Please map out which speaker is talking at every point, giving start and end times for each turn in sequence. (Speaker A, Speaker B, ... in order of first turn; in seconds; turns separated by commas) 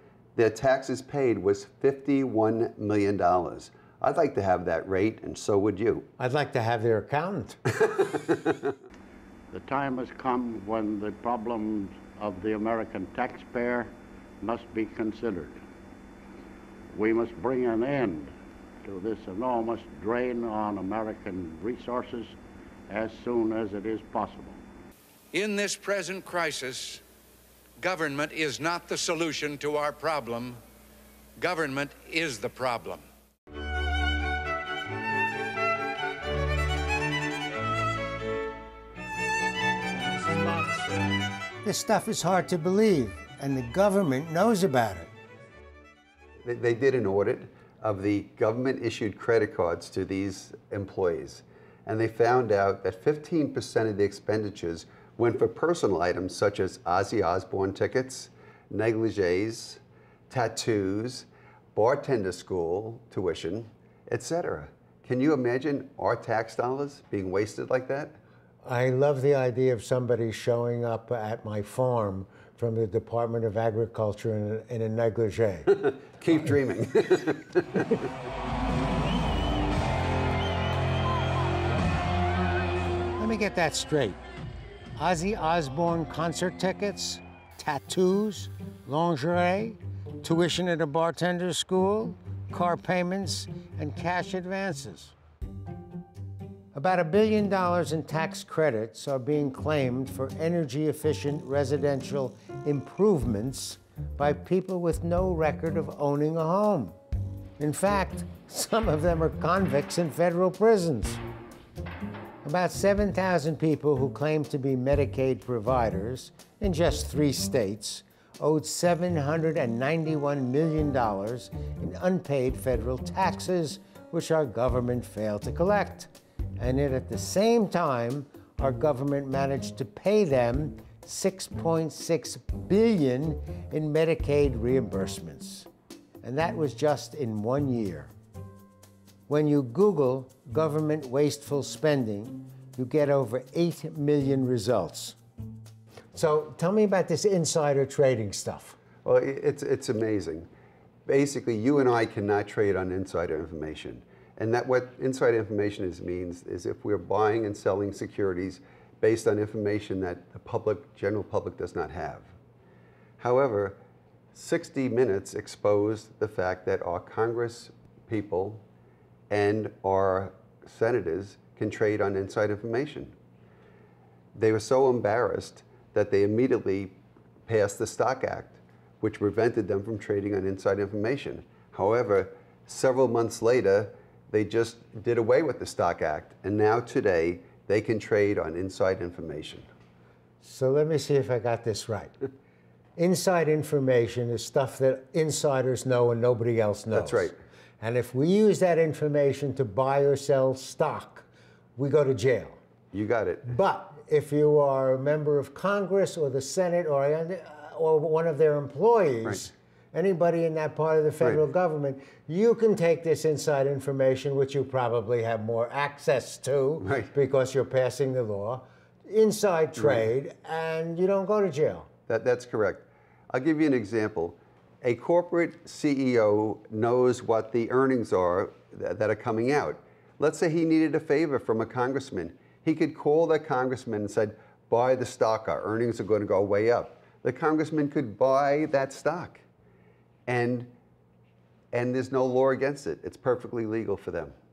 Speaker A: 0.3-6.1, Speaker B: 6.2-7.6, Speaker A: 7.7-8.7, Speaker C: 9.5-15.6, Speaker C: 16.9-22.4, Speaker C: 22.9-24.6, Speaker D: 25.3-27.0, Speaker D: 27.8-30.6, Speaker D: 31.4-33.0, Speaker B: 41.6-45.1, Speaker A: 46.4-68.2, Speaker B: 68.6-75.8, Speaker A: 75.7-78.0, Speaker B: 83.2-84.2, Speaker B: 85.0-95.1, Speaker B: 96.7-107.0, Speaker B: 107.6-111.2, Speaker B: 112.4-135.7, Speaker B: 136.2-138.1, Speaker B: 139.3-145.2, Speaker B: 146.1-148.8, Speaker A: 149.0-150.5, Speaker A: 151.1-162.3, Speaker A: 163.2-163.8, Speaker A: 164.3-168.6, Speaker A: 169.3-173.1, Speaker A: 174.3-189.7, Speaker B: 190.4-192.1, Speaker B: 193.0-202.6, Speaker A: 196.9-197.3, Speaker A: 202.9-203.5, Speaker B: 203.4-221.9, Speaker A: 216.8-217.1, Speaker A: 219.8-220.0, Speaker A: 222.1-239.4, Speaker A: 240.3-240.7, Speaker A: 241.7-244.3